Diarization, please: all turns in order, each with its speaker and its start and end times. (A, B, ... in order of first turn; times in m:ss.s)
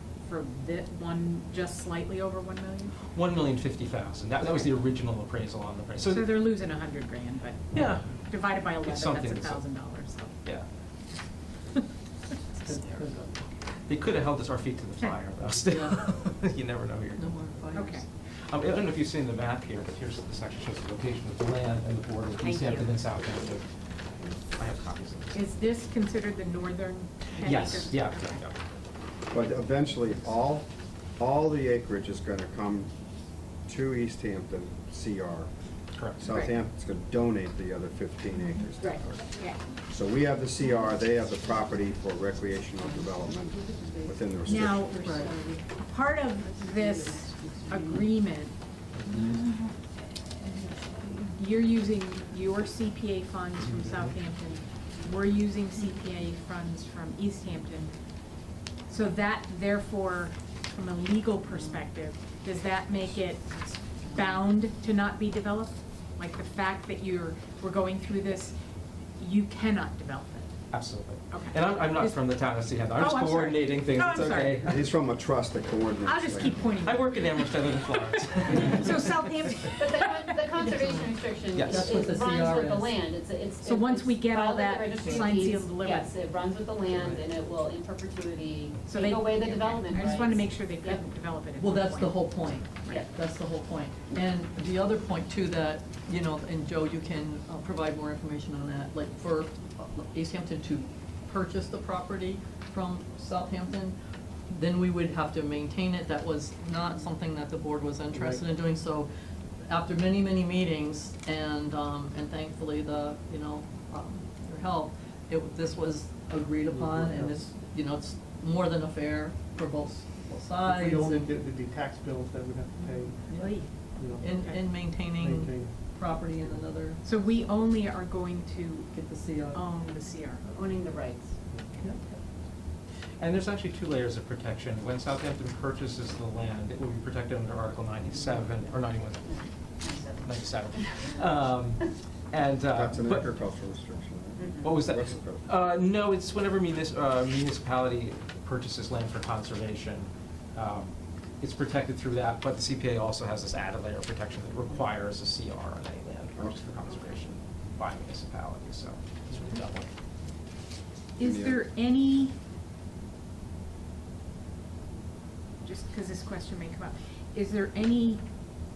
0:00.2-0:03.0 A
0:03.1-0:06.4 B
0:06.0-0:10.3 A
0:07.7-0:09.9 B
0:12.7-0:13.4 C
0:12.8-0:13.0 B
0:13.8-0:17.6 B
0:15.7-0:16.1 C
0:17.2-0:18.0 C
0:17.7-0:18.1 A
0:18.3-0:25.4 B
0:22.4-0:22.9 D
0:25.3-0:28.4 A
0:27.4-0:28.6 B
0:29.3-0:32.9 E
0:33.7-0:35.5 E
0:36.0-0:36.2 B
0:36.2-0:44.9 E
0:36.3-0:36.5 A
0:38.9-0:39.6 A
0:43.5-0:45.6 F
0:44.4-0:48.6 A
0:44.9-0:45.3 C
0:46.5-0:48.1 F
0:49.1-0:49.5 A
0:50.7-0:50.9 F
0:51.2-0:57.9 A
0:53.6-0:54.1 B
0:58.9-1:03.6 A
1:04.1-1:08.6 A
1:09.2-1:10.5 A
1:10.7-1:14.8 B
1:11.3-1:12.2 A
1:12.9-1:14.6 A
1:14.2-1:16.6 E
1:16.0-1:20.6 A
1:16.8-1:19.7 B
1:19.8-1:31.0 D
1:20.6-1:21.2 C
1:21.5-1:21.9 B
1:21.7-1:23.0 C
1:23.6-1:26.1 A
1:26.9-1:27.2 C
1:28.9-1:33.0 A
1:31.6-1:44.0 C
1:44.5-1:49.1 C
1:48.1-1:48.4 F
1:49.6-2:01.3 C
1:56.6-1:57.5 F
2:00.6-2:06.6 F
2:02.8-2:04.6 A
2:04.2-2:07.0 C
2:07.0-2:10.5 A
2:08.9-2:09.6 C
2:10.4-2:11.4 D
2:11.5-2:11.8 F
2:13.2-2:23.3 B
2:19.1-2:21.2 D
2:22.7-2:25.5 E
2:24.4-2:24.7 D
2:24.6-2:39.9 B
2:36.4-2:36.8 E
2:41.2-2:42.4 A
2:41.2-2:41.6 E
2:45.6-2:48.2 A